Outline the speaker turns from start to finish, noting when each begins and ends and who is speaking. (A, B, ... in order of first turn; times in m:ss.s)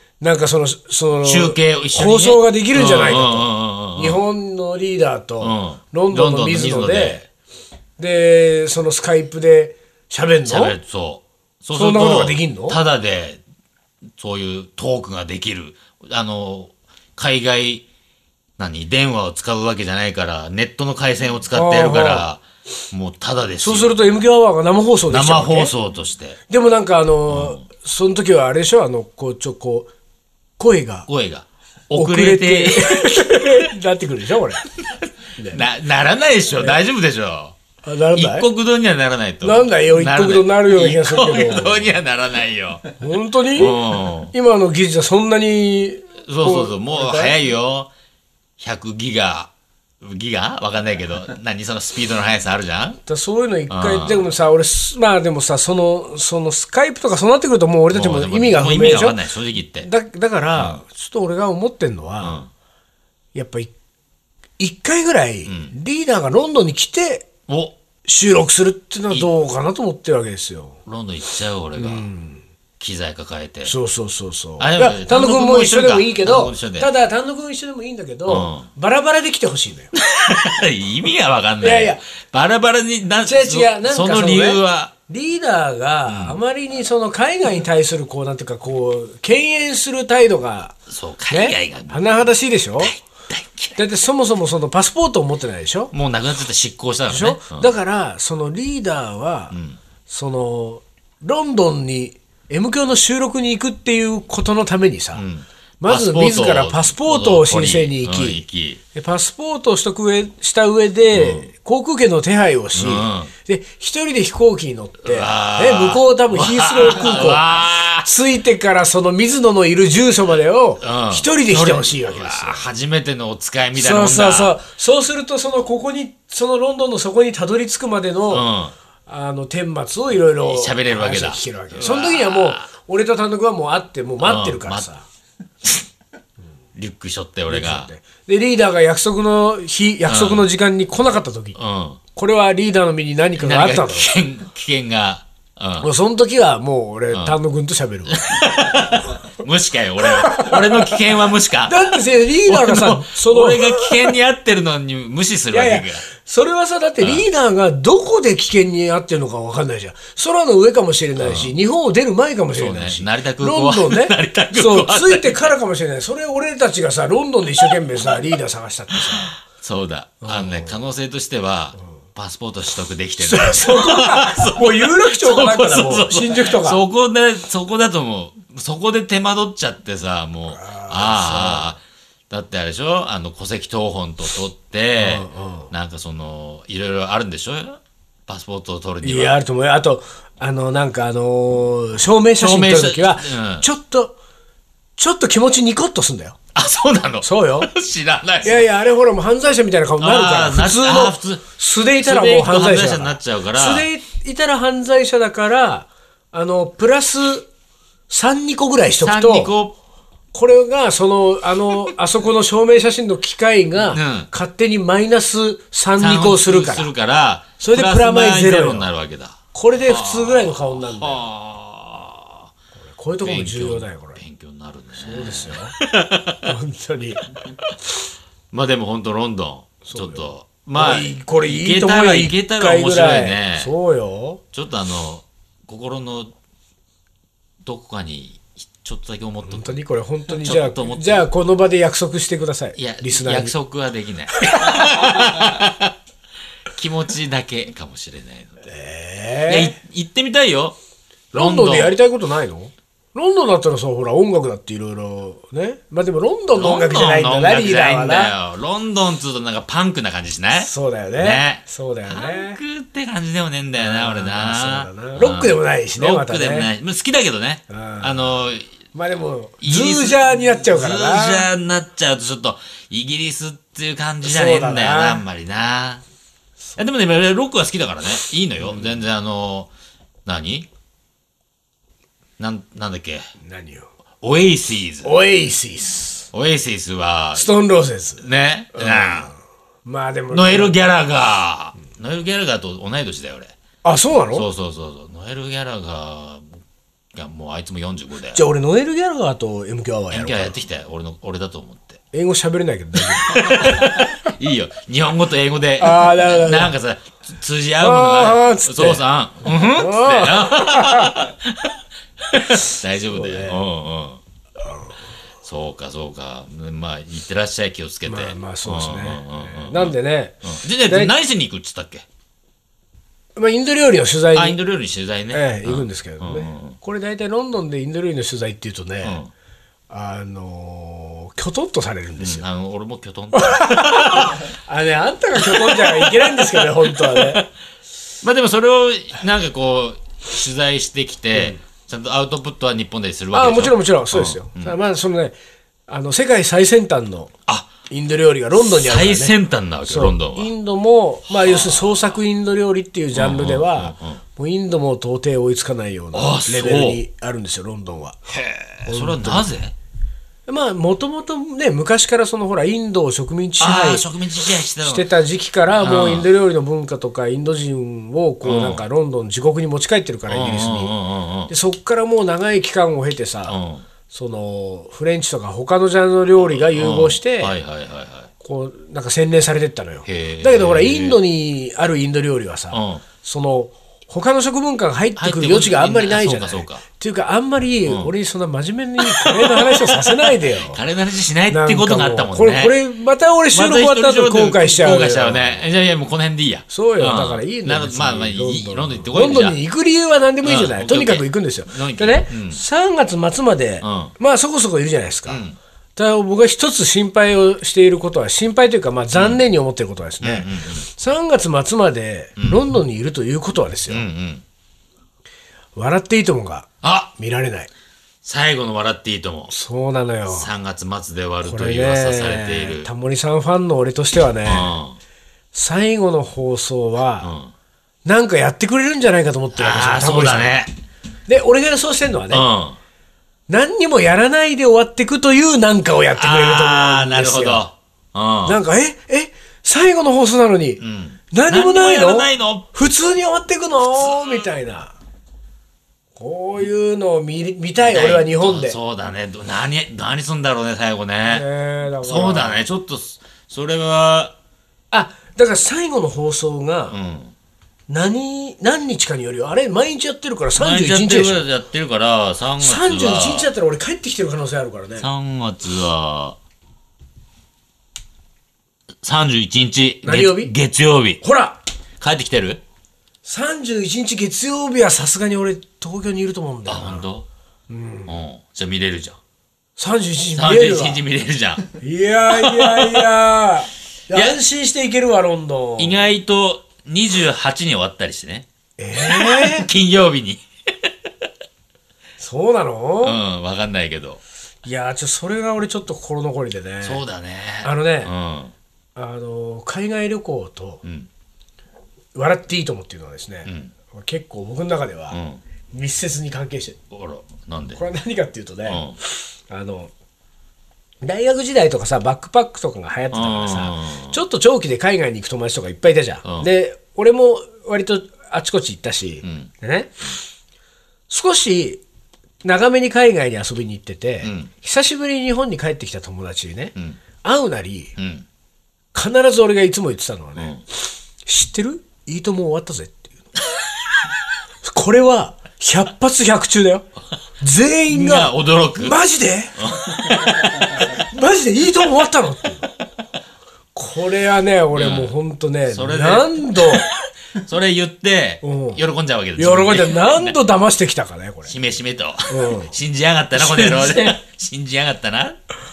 0:00.2-0:07.3 A
0:01.2-0:04.2 B
0:05.4-0:07.2 B
0:08.0-0:10.8 A
0:10.5-0:13.4 B
0:11.7-0:12.8 A
0:14.2-0:17.8 B
0:18.6-0:24.0 B
0:21.5-0:22.3 A
0:23.6-0:25.7 A
0:25.1-0:26.4 B
0:26.5-0:29.9 A
0:27.3-0:27.6 B
0:30.6-0:31.1 A
0:31.1-0:33.6 B
0:31.9-0:34.7 A
0:34.8-0:37.6 B
0:35.4-0:35.7 A
0:37.8-0:38.5 A
0:38.1-0:42.8 B
0:39.4-0:42.0 A
0:43.0-0:47.4 A
0:43.5-0:44.3 B
0:46.2-0:47.9 B
0:48.6-0:53.0 B
0:53.1-0:59.2 A
0:53.7-0:54.2 B
0:57.9-0:59.9 B
0:59.8-1:02.4 A
1:00.6-1:00.8 B
1:02.2-1:02.5 B
1:03.3-1:03.7 A
1:04.6-1:07.3 A
1:05.5-1:05.7 B
1:07.5-1:07.8 B
1:08.0-1:10.8 A
1:10.9-1:12.1 B
1:11.8-1:12.4 A
1:12.8-1:13.7 B
1:13.6-1:19.9 A
1:14.6-1:16.9 B
1:18.3-1:18.7 B
1:19.9-1:24.9 B
1:21.6-1:22.0 A
1:23.2-1:33.0 A
1:26.1-1:26.4 B
1:30.9-1:32.3 B
1:32.8-1:33.8 B
1:33.8-1:35.9 A
1:35.9-1:37.7 B
1:37.1-1:39.6 A
1:39.5-1:39.8 B
1:40.1-1:45.2 A
1:45.1-1:48.8 B
1:45.8-1:48.4 A
1:48.9-1:57.5 A
1:51.1-1:51.5 B
1:52.7-1:53.3 B
1:55.0-1:58.1 B
1:58.0-2:02.7 A
2:00.8-2:04.6 B
2:03.8-2:08.5 A
2:08.3-2:08.7 B
2:09.1-2:15.1 A
2:10.4-2:12.7 B
2:14.2-2:14.9 B
2:16.8-2:17.9 B
2:17.5-2:21.6 A
2:20.1-2:20.5 B
2:21.6-2:22.0 B
2:22.2-2:24.1 A
2:23.4-2:25.9 B
2:25.8-2:28.8 A
2:27.1-2:27.4 B
2:28.1-2:36.0 B
2:30.0-2:31.0 A
2:31.6-2:34.1 A
2:35.5-2:49.4 A
2:37.0-2:37.3 B
2:41.2-2:41.5 B
2:42.5-2:45.5 B
2:47.7-2:48.2 B
2:48.9-3:09.4 B
2:50.2-2:50.8 A
2:53.2-2:56.8 A
3:00.5-3:01.8 A
3:05.0-3:05.7 A
3:09.0-3:14.2 A
3:12.4-3:13.7 B
3:15.0-3:16.4 A
3:16.6-3:18.7 B
3:17.2-3:17.7 A
3:18.4-3:27.5 A
3:20.0-3:21.5 B
3:22.0-3:23.9 B
3:28.1-3:29.6 A
3:29.0-3:29.8 B
3:30.3-3:36.9 A
3:33.8-3:34.3 B
3:36.0-3:42.5 B
3:37.6-3:38.9 A
3:39.5-3:41.2 A
3:42.9-3:44.2 A
3:43.2-3:46.5 B
3:45.0-3:45.8 A
3:46.4-3:47.3 A
3:48.5-3:53.7 B
3:49.8-3:54.4 A
3:54.5-3:56.3 B
3:57.6-4:01.3 B
3:59.4-4:03.5 A
4:02.8-4:05.9 B
4:04.3-4:05.0 A
4:06.7-4:08.6 B
4:08.6-4:09.8 A
4:09.5-4:10.8 B
4:11.3-4:12.0 B
4:11.3-4:18.4 A
4:16.6-4:28.7 B
4:20.6-4:22.6 A
4:23.8-4:26.7 A
4:27.7-4:28.3 A
4:28.9-4:31.5 A
4:29.6-4:36.0 B
4:34.2-4:35.2 A
4:36.8-4:39.7 B
4:40.3-4:40.7 B
4:42.4-4:43.3 B
4:43.4-4:43.9 A
4:44.2-4:45.2 B
4:45.0-4:46.3 A
4:46.3-4:47.5 B
4:47.4-4:50.8 A
4:48.2-4:49.3 B
4:50.3-4:53.6 B
4:53.8-4:54.5 A
4:54.3-4:56.5 B
4:57.1-4:58.4 B
4:58.3-5:00.6 A
5:00.1-5:02.0 B
5:02.1-5:04.1 A
5:03.0-5:14.2 B
5:05.8-5:06.7 A
5:07.8-5:09.0 A
5:09.7-5:11.2 A
5:12.5-5:13.6 A
5:14.6-5:15.0 A
5:15.4-5:22.1 B
5:18.1-5:21.1 A
5:23.4-5:24.6 A
5:24.3-5:26.8 B
5:25.3-5:29.2 A
5:29.0-5:29.3 B
5:29.9-5:32.4 A
5:32.2-5:34.4 B
5:33.3-5:37.5 A
5:35.4-5:37.4 B
5:38.2-5:44.8 B
5:43.3-5:45.4 A
5:45.9-5:47.3 A
5:47.9-5:49.4 A
5:48.6-5:50.5 B
5:49.9-5:58.2 A
5:51.3-5:52.1 B
5:53.1-5:54.2 B
5:56.1-5:57.0 B
5:58.3-5:59.7 B
5:58.9-5:59.5 A
6:00.5-6:04.1 A
6:03.6-6:05.1 B
6:04.8-6:10.9 A
6:05.8-6:06.3 B
6:08.4-6:08.8 B
6:10.3-6:11.5 B
6:11.5-6:13.6 A
6:13.5-6:13.8 B
6:14.1-6:17.6 A
6:16.4-6:18.3 B
6:18.4-6:30.8 A
6:20.1-6:21.2 B
6:22.7-6:23.0 B
6:25.2-6:26.8 B
6:27.9-6:28.1 B
6:29.0-6:32.8 B
6:31.5-6:35.6 A
6:33.5-6:39.6 B
6:36.7-6:45.4 A
6:40.4-6:42.6 B
6:43.8-6:44.1 B
6:45.3-6:45.6 B
6:46.0-6:54.1 A
6:49.2-6:49.4 B
6:50.2-6:50.9 B
6:52.4-6:52.6 B
6:53.9-6:54.4 B
6:55.8-6:57.7 A
6:56.8-6:57.1 B
6:58.2-6:59.5 B
6:59.5-7:00.5 A
7:00.3-7:02.9 B
7:01.4-7:04.8 A
7:04.4-7:05.0 B
7:05.5-7:07.3 A
7:07.2-7:07.5 B
7:08.0-7:10.6 A
7:09.6-7:10.7 B
7:11.3-7:12.5 A
7:12.3-7:12.8 B
7:13.5-7:17.6 A
7:16.2-7:18.6 B
7:18.4-7:25.0 A
7:20.8-7:22.7 B
7:23.9-7:24.3 B
7:26.2-7:28.8 A
7:27.8-7:31.4 B
7:31.3-7:32.6 A
7:32.0-7:34.4 B
7:34.9-7:37.0 A
7:36.9-7:37.3 B
7:37.9-7:41.4 A
7:40.6-7:43.5 B
7:42.6-7:45.1 A
7:45.0-7:46.4 B
7:49.0-7:51.2 B
7:50.0-7:50.5 A
7:51.2-7:51.6 A
7:52.0-7:52.6 B
7:53.2-7:57.1 A
7:56.7-7:57.3 B
7:57.7-7:58.1 A
7:58.1-7:59.2 B
7:59.8-8:01.0 A
8:00.4-8:01.6 B
8:01.8-8:06.1 A
8:02.3-8:03.1 B
8:04.1-8:04.4 B
8:05.8-8:10.9 B
8:08.8-8:09.7 A
8:12.2-8:13.2 A
8:13.0-8:14.2 B
8:14.6-8:17.0 A
8:16.8-8:18.5 B
8:17.6-8:18.1 A
8:19.0-8:20.8 A
8:20.8-8:21.1 B
8:22.2-8:25.2 A
8:23.4-8:23.7 B
8:25.1-8:25.4 B
8:25.7-8:26.8 A
8:26.9-8:27.8 B
8:27.8-8:29.9 A
8:28.7-8:29.0 B
8:31.0-8:40.0 A
8:33.1-8:34.2 B
8:36.2-8:36.5 B
8:39.2-8:39.5 B
8:41.1-8:41.8 A
8:42.4-8:47.9 A
8:44.2-8:44.5 B
8:48.0-8:48.3 B
8:48.9-8:50.6 A
8:50.4-8:50.6 B
8:51.2-8:53.3 A
8:54.6-8:56.9 A
8:57.4-9:02.7 A
8:57.9-8:59.0 B
8:59.6-9:00.6 B
9:03.8-9:06.9 A
9:04.7-9:05.1 B
9:05.7-9:10.4 B
9:08.4-9:08.8 A
9:09.4-9:11.5 A
9:11.5-9:15.4 B
9:12.3-9:12.7 A
9:13.4-9:14.2 A